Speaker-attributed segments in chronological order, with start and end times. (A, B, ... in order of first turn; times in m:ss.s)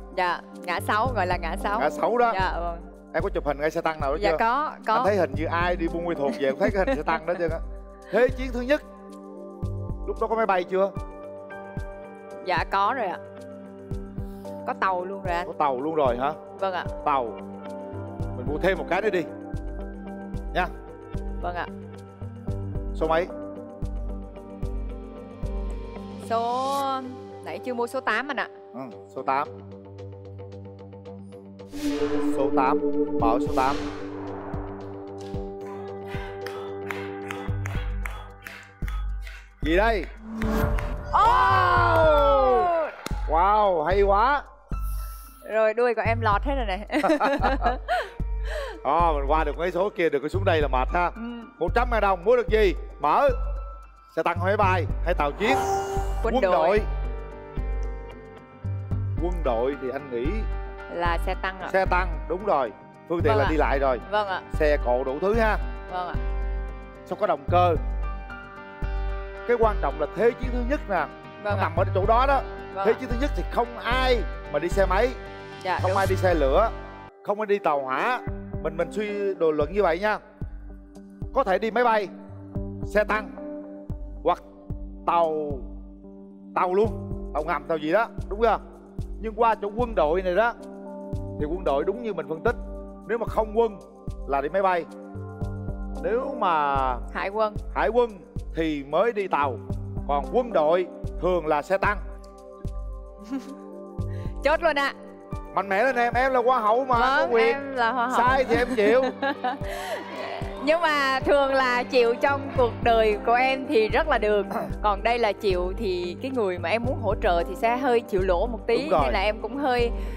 0:00.1-0:02.9 A
0:01.8-0:02.4 B
0:03.1-0:04.4 B
0:04.2-0:05.1 A
0:04.9-0:08.8 B
0:06.5-0:07.3 A
0:10.0-0:10.9 B
0:12.4-0:13.2 A
0:14.6-0:15.5 A
0:15.4-0:16.4 B
0:16.6-0:16.9 A
0:17.0-0:17.4 B
0:18.3-0:19.3 B
0:21.4-0:21.7 A
0:23.0-0:23.3 B
0:26.2-0:28.5 A
0:28.7-0:29.5 B
0:32.2-0:33.8 B
0:39.6-0:40.1 B
0:41.1-0:42.9 A
0:41.2-0:42.7 B
0:43.3-0:44.4 B
0:45.4-0:48.1 A
0:47.0-0:47.7 B
0:48.8-0:53.4 B
0:51.2-0:51.5 A
0:54.1-0:55.6 B
0:56.2-0:56.8 A
0:56.3-0:56.9 B
0:59.2-1:00.5 B
1:00.9-1:01.7 A
1:01.6-1:05.6 B
1:03.2-1:04.4 A
1:05.9-1:06.2 A
1:07.1-1:07.8 B
1:09.4-1:15.2 B
1:11.4-1:11.7 A
1:12.7-1:13.0 A
1:15.6-1:16.0 A
1:15.8-1:20.2 B
1:21.3-1:22.1 B
1:22.8-1:23.3 B
1:25.0-1:25.7 B
1:26.5-1:28.6 B
1:29.2-1:30.6 B
1:31.4-1:34.9 B
1:36.0-1:37.0 B
1:37.1-1:37.6 A
1:37.7-1:42.0 B
1:43.2-1:43.5 A
1:44.4-1:44.9 A
1:45.5-1:49.1 B
1:47.0-2:00.0 A
1:58.7-1:59.2 B